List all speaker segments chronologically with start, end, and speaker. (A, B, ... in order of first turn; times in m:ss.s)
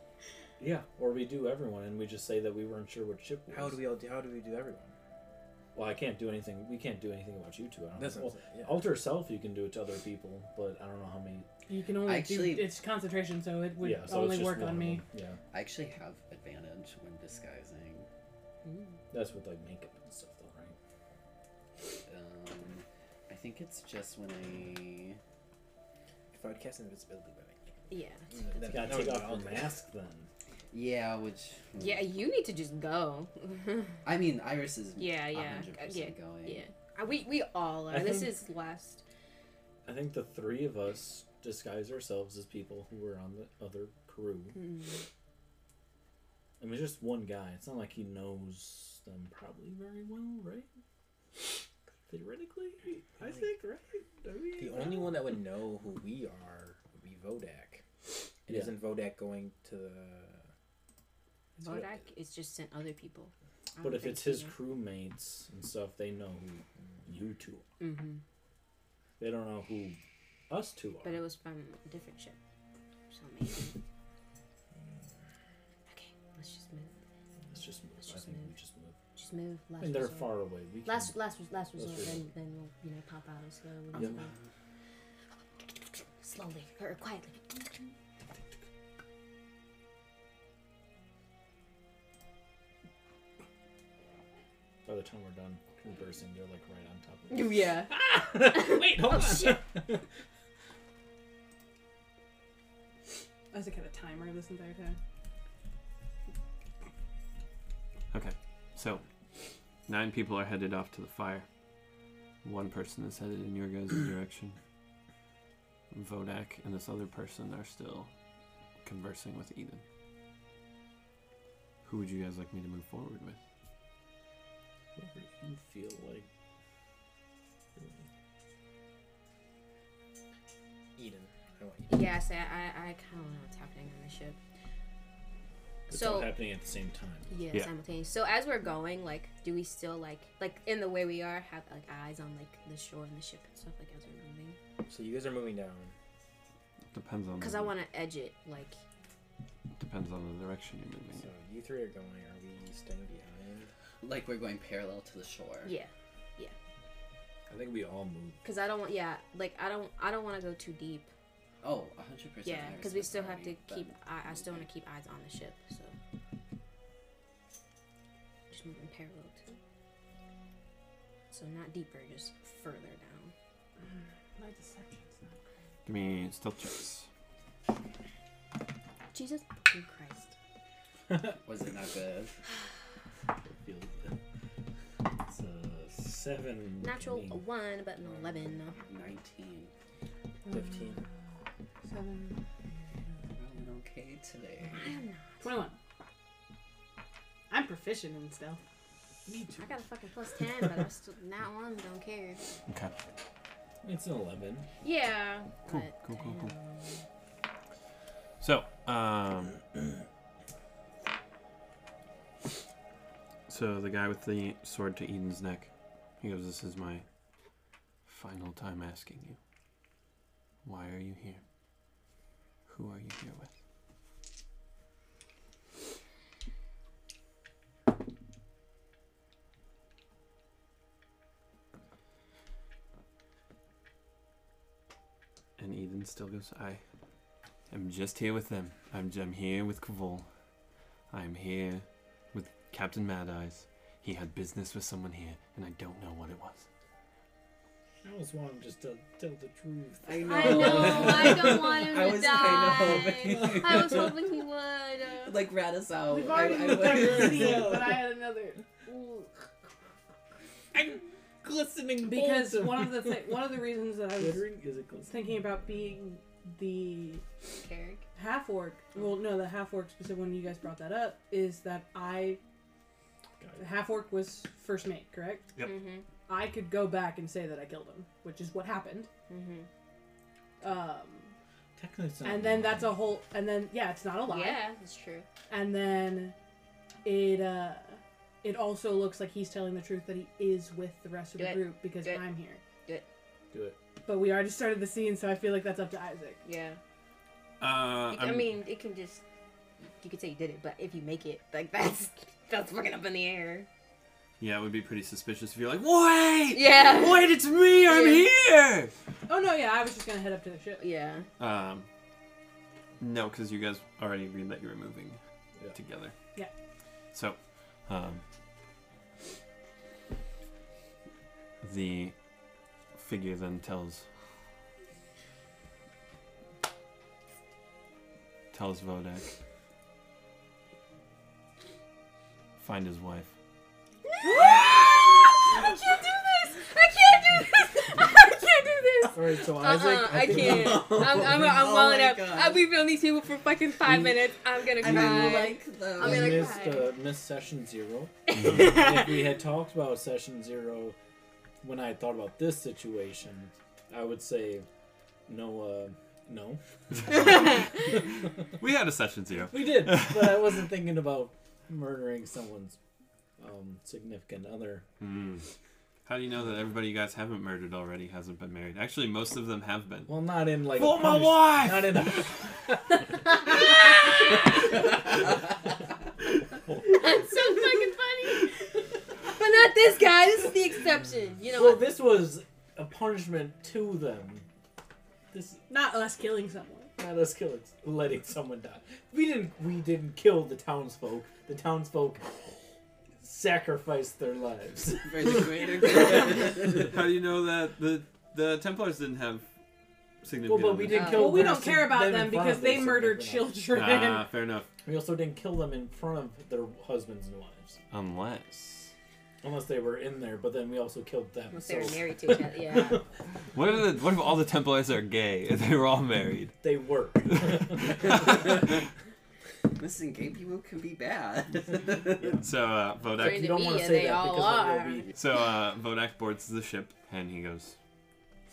0:00.6-0:03.9 A
0:03.5-0:05.0 B
0:05.8-0:11.5 A
0:08.0-0:08.9 B
0:11.7-0:15.0 C
0:12.0-0:12.8 D
0:13.8-0:15.4 A
0:15.5-0:18.1 D
0:18.6-0:18.9 E
0:19.1-0:20.8 A
0:22.1-0:25.2 D
0:26.3-0:29.8 B
0:27.9-0:28.3 E
0:28.6-0:30.3 A
0:30.7-0:32.1 D
0:31.8-0:34.0 E
0:34.0-0:36.6 D
0:35.0-0:39.0 E
0:37.9-0:38.4 A
0:39.8-0:44.6 A
0:44.5-0:45.0 E
0:46.6-0:50.7 A
0:52.1-0:55.4 A
0:54.6-0:57.8 B
0:58.5-1:00.4 B
0:58.5-0:58.8 A
1:01.6-1:04.6 E
1:03.8-1:07.6 A
1:07.8-1:08.2 E
1:09.2-1:10.0 A
1:10.5-1:11.2 A
1:11.0-1:12.4 E
1:13.1-1:13.8 E
1:15.9-1:16.9 E
1:17.5-1:19.0 A
1:18.0-1:18.6 E
1:19.2-1:24.3 E
1:19.8-1:21.2 A
1:21.8-1:22.3 A
1:23.9-1:24.2 A
1:26.2-1:27.9 E
1:34.8-1:40.0 A
1:37.3-1:39.6 E
1:43.5-1:45.0 C
1:48.1-1:49.0 F
1:49.9-1:51.5 F
1:52.4-1:54.6 F
1:55.9-1:58.1 F
1:58.8-1:59.8 F
2:01.8-2:03.4 F
2:05.0-2:06.3 A
2:07.8-2:08.0 A
2:11.0-2:12.1 B
2:11.9-2:14.4 E
2:15.9-2:17.3 A
2:15.9-2:16.4 E
2:17.3-2:24.6 E
2:24.9-2:25.9 B
2:26.9-2:27.8 F
2:27.4-2:28.8 E
2:29.8-2:31.3 F
2:31.1-2:33.7 B
2:34.0-2:35.7 D
2:35.6-2:36.6 E
2:37.5-2:38.4 A
2:38.4-2:41.1 E
2:41.6-2:44.7 D
2:42.4-2:46.0 E
2:48.5-2:49.6 E
2:51.3-2:53.3 E
2:53.9-2:55.5 C
2:55.9-2:57.1 F
2:59.1-3:00.4 E
3:01.1-3:01.4 A
3:01.4-3:02.4 D
3:03.4-3:04.2 A
3:05.2-3:07.4 A
3:06.8-3:08.8 E
3:08.1-3:09.7 D
3:10.4-3:11.1 C
3:10.5-3:11.0 B
3:11.8-3:12.4 C
3:13.3-3:14.9 D
3:14.8-3:15.5 E
3:15.4-3:15.8 C
3:17.5-3:18.6 C
3:19.3-3:19.7 A
3:19.6-3:22.4 E
3:22.7-3:22.9 F
3:23.8-3:24.7 A
3:24.8-3:27.0 E
3:25.7-3:26.5 F
3:28.4-3:29.6 F
3:33.5-3:37.0 F
3:38.1-3:39.4 F
3:40.6-3:41.4 F
3:42.7-3:43.5 F
3:55.6-3:56.8 F
3:57.7-4:00.3 F
4:01.1-4:06.7 F
4:08.0-4:11.7 A
4:10.0-4:14.1 D
4:10.3-4:15.4 E
4:10.6-4:11.2 C
4:12.8-4:13.9 A
4:15.2-4:17.7 D
4:16.1-4:19.4 C
4:16.7-4:18.0 A
4:20.7-4:23.6 A
4:22.0-4:24.5 C
4:24.2-4:25.2 A
4:25.1-4:27.2 C
4:27.6-4:28.0 E
4:28.2-4:32.4 C
4:33.4-4:33.8 A
4:33.6-4:35.5 C
4:35.6-4:36.0 E
4:36.3-4:39.1 C
4:39.3-4:39.7 E
4:40.6-4:41.3 C
4:41.8-4:43.0 A
4:42.2-4:44.6 C
4:44.3-4:45.3 E
4:45.5-4:46.4 C
4:47.0-4:52.6 C
4:51.4-4:52.2 E
4:54.1-4:56.4 C
4:56.4-4:56.8 E
4:57.6-4:58.5 F
4:58.1-4:59.2 E
5:00.0-5:03.7 E
5:04.4-5:08.9 F
5:06.5-5:07.3 E
5:07.9-5:08.3 E
5:09.3-5:10.8 C
5:10.8-5:11.3 E
5:11.4-5:11.9 F
5:13.0-5:15.2 F
5:15.7-5:16.2 F
5:17.1-5:18.2 F
5:21.6-5:22.2 F
5:23.0-5:24.1 F
5:28.5-5:29.3 F
5:32.6-5:33.3 F
5:34.0-5:46.9 E
5:34.2-5:34.6 C
5:39.1-5:41.5 A
5:40.2-5:42.7 D
5:43.9-5:44.1 D
5:44.8-5:46.6 D
5:44.8-5:45.4 A
5:46.0-5:51.0 A
5:48.3-5:49.2 E
5:51.6-5:54.7 A
5:55.3-5:57.8 A
5:58.6-6:00.5 F
5:59.5-6:02.8 A
6:03.4-6:04.8 A
6:05.0-6:05.5 F
6:06.1-6:10.1 F
6:10.1-6:13.2 A
6:10.7-6:12.3 F
6:16.8-6:18.7 E
6:19.3-6:21.9 E
6:21.6-6:24.4 A
6:25.3-6:25.6 A
6:25.7-6:26.9 C
6:27.0-6:32.6 A
6:33.2-6:36.7 A
6:35.0-6:36.9 D
6:36.7-6:39.5 F
6:40.2-6:41.2 F
6:40.4-6:43.6 A
6:40.9-6:41.5 E
6:41.0-6:44.3 C
6:43.7-6:44.7 F
6:44.8-6:47.8 A
6:47.9-6:48.9 F
6:49.4-6:53.0 A
6:51.5-6:53.0 E
6:53.5-6:56.6 F
6:56.6-6:58.3 A
6:57.3-6:58.6 F
6:59.8-7:02.4 D
7:02.4-7:03.6 F
7:03.1-7:05.1 A
7:03.2-7:05.1 E
7:05.2-7:07.8 F